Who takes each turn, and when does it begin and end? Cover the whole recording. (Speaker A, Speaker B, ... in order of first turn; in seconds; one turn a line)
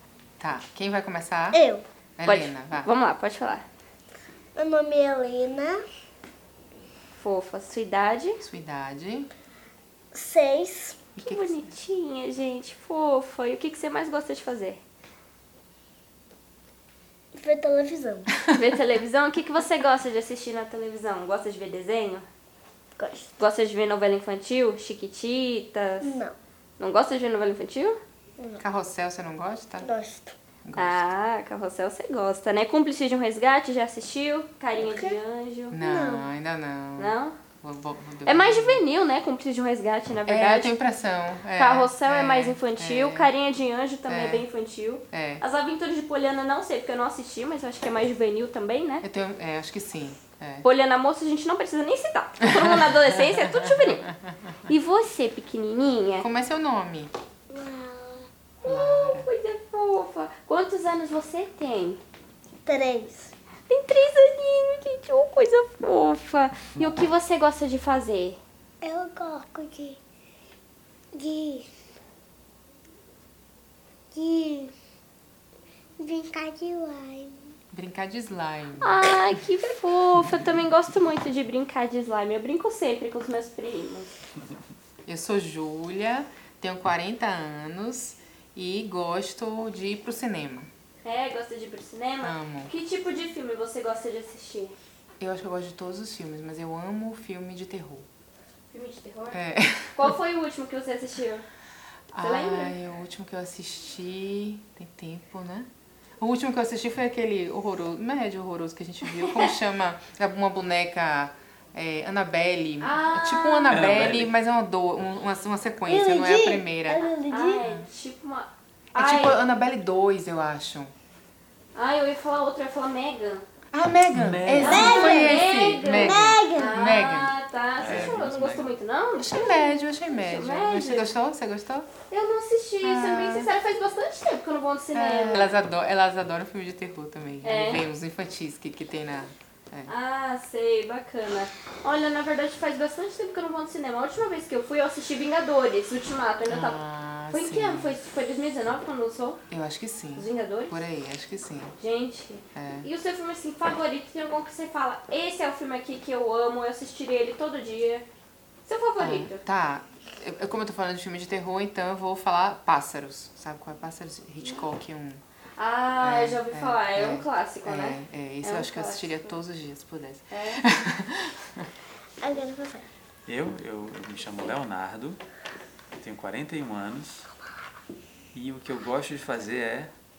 Speaker A: 0.4-1.6
Speaker B: 1.5-1.9
Speaker A: 2.2-2.9
Speaker C: 2.2-3.6
Speaker B: 4.6-5.8
Speaker C: 7.1-8.4
Speaker A: 8.4-9.3
Speaker B: 10.1-11.0
Speaker A: 11.2-11.7
Speaker C: 11.2-14.8
Speaker B: 17.4-18.3
Speaker C: 18.5-22.3
Speaker B: 23.0-23.3
Speaker C: 23.4-26.1
Speaker B: 26.0-26.4
Speaker C: 26.8-28.0
Speaker A: 28.6-29.9
Speaker B: 29.8-30.4
Speaker A: 30.6-31.1
Speaker C: 30.8-35.8
Speaker B: 34.8-35.2
Speaker A: 35.7-38.9
Speaker B: 35.8-36.3
Speaker C: 37.0-37.4
Speaker C: 38.2-40.8
Speaker A: 40.3-43.3
Speaker C: 41.6-49.0
Speaker A: 44.1-44.5
Speaker A: 45.1-45.4
Speaker A: 49.0-50.7
Speaker C: 50.6-54.1
Speaker C: 54.7-56.3
Speaker A: 56.2-57.1
Speaker B: 57.5-58.3
Speaker A: 58.6-59.3
Speaker C: 58.6-62.0
Speaker B: 62.6-63.3
Speaker C: 63.7-68.4
Speaker B: 68.8-70.0
Speaker B: 71.1-71.7
Speaker B: 74.1-74.7
Speaker B: 76.0-77.4
Speaker A: 77.7-79.0
Speaker C: 78.8-84.1
Speaker A: 85.1-90.7
Speaker C: 91.0-94.7
Speaker A: 92.2-92.7
Speaker A: 95.2-98.1
Speaker C: 98.7-99.4
Speaker A: 99.3-100.1
Speaker C: 100.0-101.5
Speaker A: 102.1-105.7
Speaker C: 102.2-102.8
Speaker A: 106.2-117.0
Speaker C: 112.8-113.8
Speaker D: 113.7-114.3
Speaker B: 115.9-117.6
Speaker C: 117.3-119.4
Speaker A: 118.9-120.9
Speaker C: 121.7-123.4
Speaker A: 123.7-127.3
Speaker D: 124.1-125.1
Speaker C: 124.6-131.1
Speaker B: 124.6-125.3
Speaker B: 125.9-126.8
Speaker D: 127.8-128.7
Speaker A: 127.8-128.2
Speaker A: 129.2-131.9
Speaker C: 132.1-135.6
Speaker A: 132.8-133.5
Speaker A: 134.9-139.9
Speaker C: 137.4-137.8
Speaker C: 139.9-146.8
Speaker A: 146.5-148.0
Speaker C: 147.3-149.4
Speaker A: 149.5-151.8
Speaker C: 150.2-150.8
Speaker C: 151.8-158.1
Speaker A: 152.5-152.9
Speaker C: 158.7-159.4
Speaker A: 159.0-165.2
Speaker C: 165.6-169.4
Speaker A: 166.0-171.7
Speaker C: 170.3-170.7
Speaker B: 172.2-172.9
Speaker D: 173.3-175.2
Speaker D: 175.9-177.3
Speaker D: 178.3-179.9